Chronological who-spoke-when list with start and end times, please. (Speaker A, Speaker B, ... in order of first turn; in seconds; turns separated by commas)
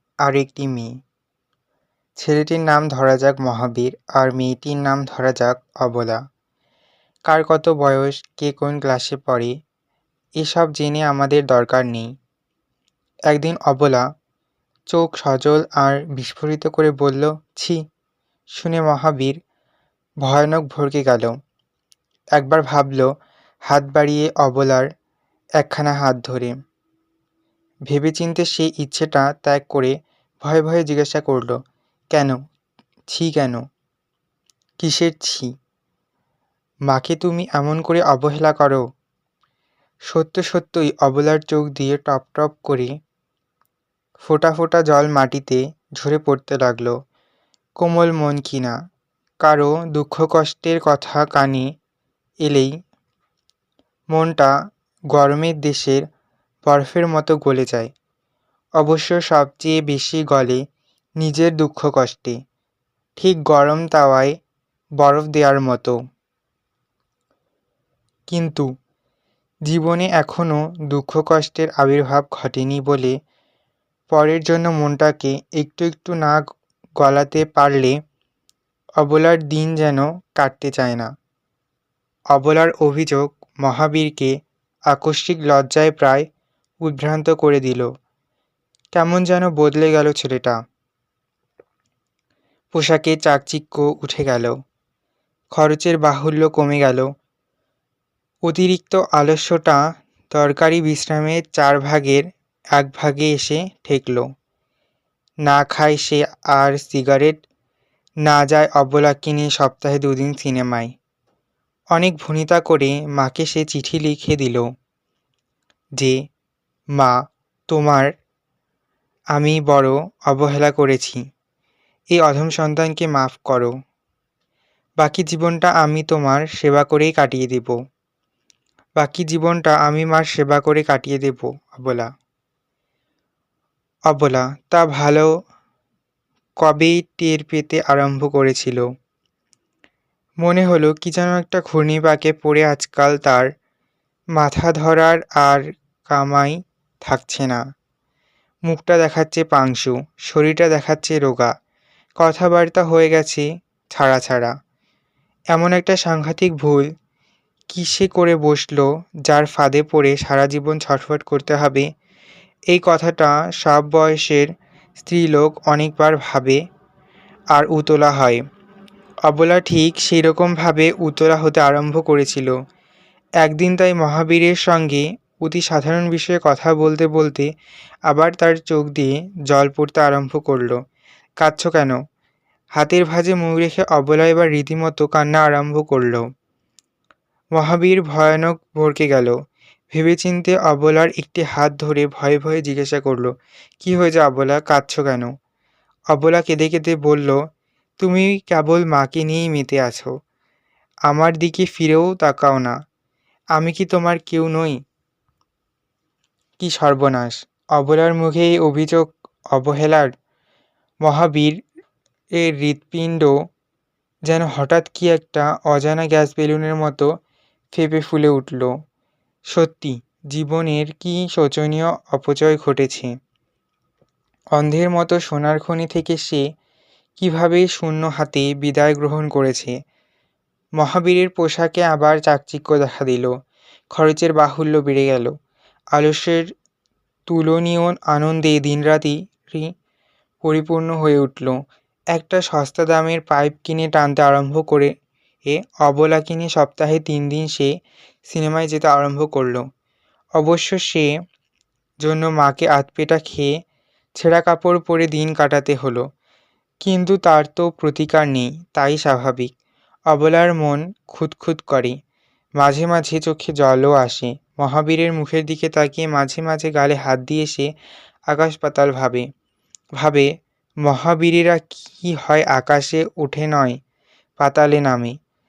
Speaker A: 0.2-0.9, Speaker A: 2.2-6.2, Speaker A: 7.3-9.5, Speaker A: 10.4-12.1, Speaker A: 13.3-14.0, Speaker A: 14.9-17.8, Speaker A: 18.6-19.4, Speaker A: 20.2-21.3, Speaker A: 22.3-23.1, Speaker A: 23.7-24.9, Speaker A: 25.6-26.5, Speaker A: 27.9-31.6, Speaker A: 32.1-32.4, Speaker A: 33.1-33.6, Speaker A: 34.8-35.5, Speaker A: 36.9-38.8, Speaker A: 40.1-42.9, Speaker A: 44.2-46.9, Speaker A: 47.8-48.7, Speaker A: 49.4-51.6, Speaker A: 52.4-52.7, Speaker A: 54.1-54.5, Speaker A: 55.1-56.0, Speaker A: 56.7-57.9, Speaker A: 58.8-60.6, Speaker A: 61.2-62.4, Speaker A: 63.2-64.3, Speaker A: 65.0-66.0, Speaker A: 68.3-68.6, Speaker A: 69.7-73.1, Speaker A: 74.1-76.4, Speaker A: 77.0-78.0, Speaker A: 79.0-81.1, Speaker A: 82.3-84.3, Speaker A: 84.9-86.2, Speaker A: 86.8-87.9, Speaker A: 88.9-90.6, Speaker A: 92.7-94.5, Speaker A: 95.5-97.1, Speaker A: 98.5-99.8, Speaker A: 100.3-102.2, Speaker A: 102.8-104.2, Speaker A: 105.5-107.4, Speaker A: 108.2-110.9, Speaker A: 111.9-114.6, Speaker A: 117.7-118.1, Speaker A: 119.3-121.2, Speaker A: 122.1-123.7, Speaker A: 125.0-127.7, Speaker A: 129.0-132.1, Speaker A: 134.1-135.3, Speaker A: 136.6-138.8, Speaker A: 140.4-143.5, Speaker A: 144.4-147.6, Speaker A: 148.7-151.5, Speaker A: 152.2-154.5, Speaker A: 155.5-156.8, Speaker A: 157.7-161.8, Speaker A: 162.7-164.5, Speaker A: 165.0-166.6, Speaker A: 167.5-168.4, Speaker A: 169.3-172.5, Speaker A: 173.4-177.5, Speaker A: 178.1-180.8, Speaker A: 181.4-181.9, Speaker A: 182.8-186.2, Speaker A: 187.6-189.3, Speaker A: 189.9-193.3, Speaker A: 193.8-195.3, Speaker A: 196.1-197.4, Speaker A: 198.0-200.1, Speaker A: 201.1-202.7, Speaker A: 203.6-204.8, Speaker A: 206.6-210.1, Speaker A: 211.0-211.5, Speaker A: 212.4-213.3, Speaker A: 214.3-217.1, Speaker A: 217.7-218.7, Speaker A: 219.5-223.1, Speaker A: 224.6-226.4, Speaker A: 227.2-229.7, Speaker A: 230.8-233.3, Speaker A: 233.9-235.3, Speaker A: 235.9-236.5, Speaker A: 237.3-239.7, Speaker A: 240.4-241.5, Speaker A: 242.1-244.9, Speaker A: 245.5-247.7, Speaker A: 248.3-249.6, Speaker A: 250.4-251.1, Speaker A: 252.0-253.5, Speaker A: 254.2-256.0, Speaker A: 256.8-259.5, Speaker A: 260.1-261.9, Speaker A: 262.6-267.7, Speaker A: 268.3-269.2, Speaker A: 270.0-270.3, Speaker A: 270.8-273.8, Speaker A: 274.4-275.1